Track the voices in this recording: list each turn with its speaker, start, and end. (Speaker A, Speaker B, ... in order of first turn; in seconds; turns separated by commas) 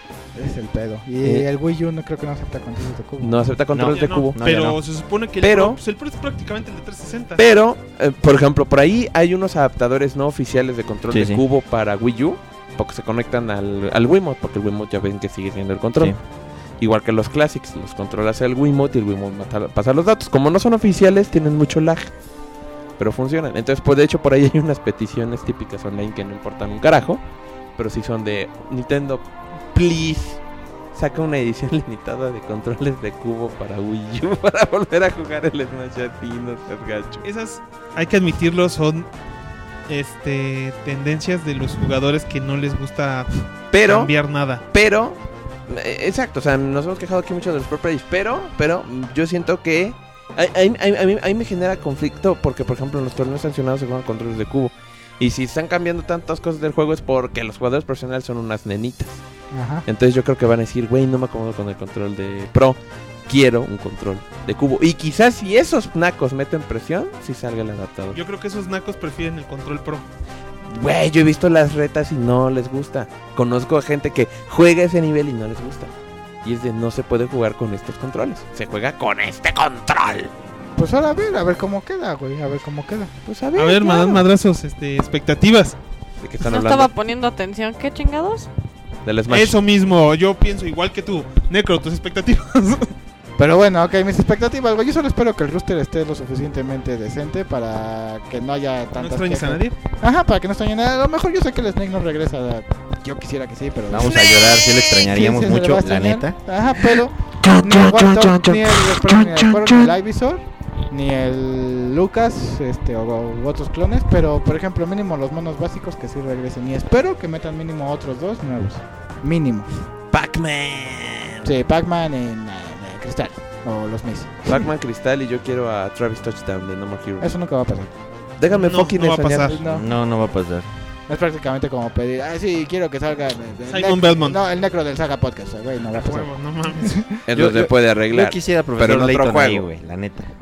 Speaker A: 0.3-3.5, Speaker B: 1.2-1.5, Speaker B: 3.2-4.5, Speaker C: 3.7-4.8, Speaker D: 3.9-7.4, Speaker B: 5.4-5.8, Speaker B: 7.4-16.2, Speaker C: 11.1-11.4, Speaker B: 16.8-22.1, Speaker B: 23.0-27.2, Speaker B: 27.8-30.4, Speaker B: 30.9-37.3, Speaker D: 37.2-39.1, Speaker D: 39.9-44.6, Speaker B: 43.7-44.1, Speaker B: 44.7-59.2, Speaker A: 59.5-59.9, Speaker B: 59.9-68.2, Speaker D: 68.1-70.1, Speaker B: 70.7-75.9, Speaker B: 76.4-80.3, Speaker A: 80.8-83.1, Speaker B: 83.3-84.2, Speaker D: 83.6-85.8, Speaker B: 86.2-86.9, Speaker E: 86.4-88.5, Speaker B: 89.0-89.6, Speaker D: 89.3-92.9, Speaker A: 93.4-104.4, Speaker D: 99.0-99.8, Speaker C: 103.9-106.4, Speaker A: 105.0-119.7, Speaker B: 120.1-121.5, Speaker A: 121.4-124.7, Speaker B: 124.5-127.3, Speaker A: 127.2-127.9, Speaker B: 128.4-129.6, Speaker D: 128.5-129.6, Speaker A: 129.5-129.8, Speaker C: 129.7-130.7, Speaker A: 131.1-137.1, Speaker D: 133.7-134.4, Speaker D: 135.9-137.0, Speaker B: 137.3-139.7, Speaker C: 137.3-140.3